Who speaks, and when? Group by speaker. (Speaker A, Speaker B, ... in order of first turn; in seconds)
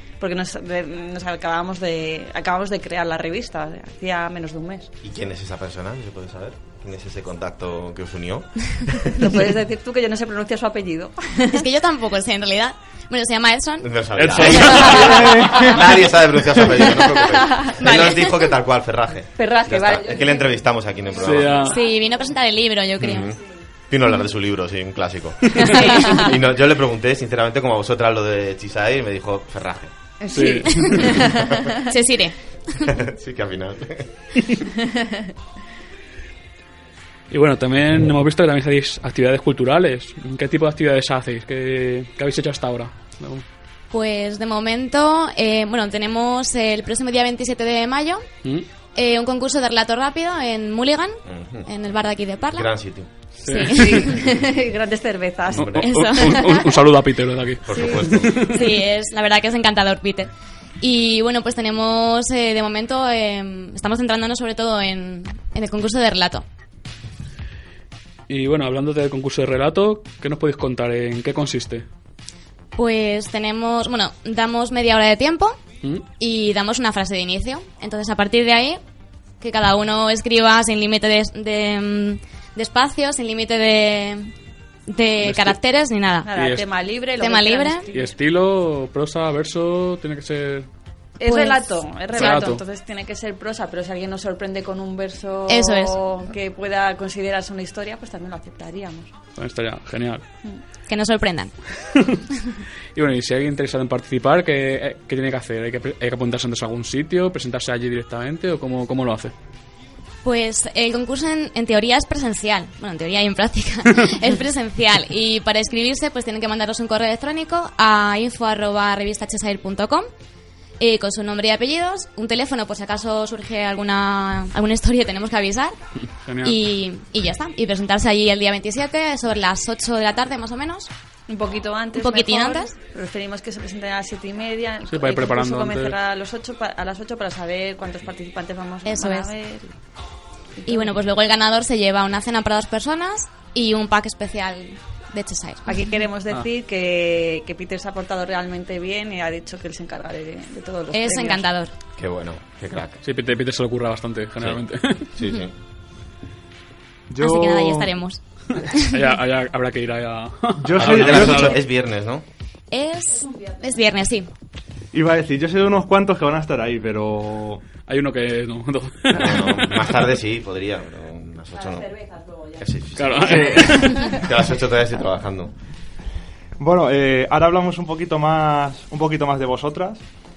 Speaker A: 0.2-4.9, 9.2-11.7, 14.5-15.8, 16.9-17.7, 19.4-20.5, 30.2-31.8, 34.6-35.3, 53.8-56.4, 57.7-58.1, 86.2-88.1, 91.2-99.1, 131.3-139.8, 140.6-140.9, 145.7-151.4, 163.2-163.6, 171.6-172.7, 173.8-174.2
Speaker B: 5.0-9.3, 13.8-21.8, 23.0-29.9, 32.9-34.1, 51.3-51.7, 52.5-53.1, 55.5-55.9, 57.6-58.4, 152.0-153.0, 155.1-155.5, 160.8-162.2, 169.1-171.9, 172.6-175.5
Speaker C: 11.5-13.9, 17.6-18.5, 21.6-23.3, 25.6-26.3, 31.9-32.9, 43.9-48.3, 49.0-52.7, 53.4-54.2, 55.8-56.7, 58.4-66.5, 72.8-75.6, 76.2-78.8, 79.4-84.3, 84.9-86.3, 87.2-87.9, 91.2-92.3, 95.5-96.0, 100.9-101.5, 110.2-120.1, 120.8-125.8, 126.4-130.9, 131.9-132.7, 138.8-139.3, 140.7-146.0, 150.9-151.7, 157.2-158.2, 162.7-164.3
Speaker D: 14.2-15.7, 21.2-21.8, 30.3-31.3, 37.3-43.4, 53.4-54.0, 55.6-58.6, 68.3-71.9, 85.2-85.6, 86.3-86.7, 87.9-90.7, 92.1-92.6, 99.4-100.2, 103.0-109.3, 126.2-126.6, 134.9-136.0, 153.0-155.1, 158.6-161.6, 167.9-169.7, 173.0-174.0
Speaker E: 157.1-157.9, 160.6-161.6, 164.9-167.6, 173.2-174.0, 176.6-180.0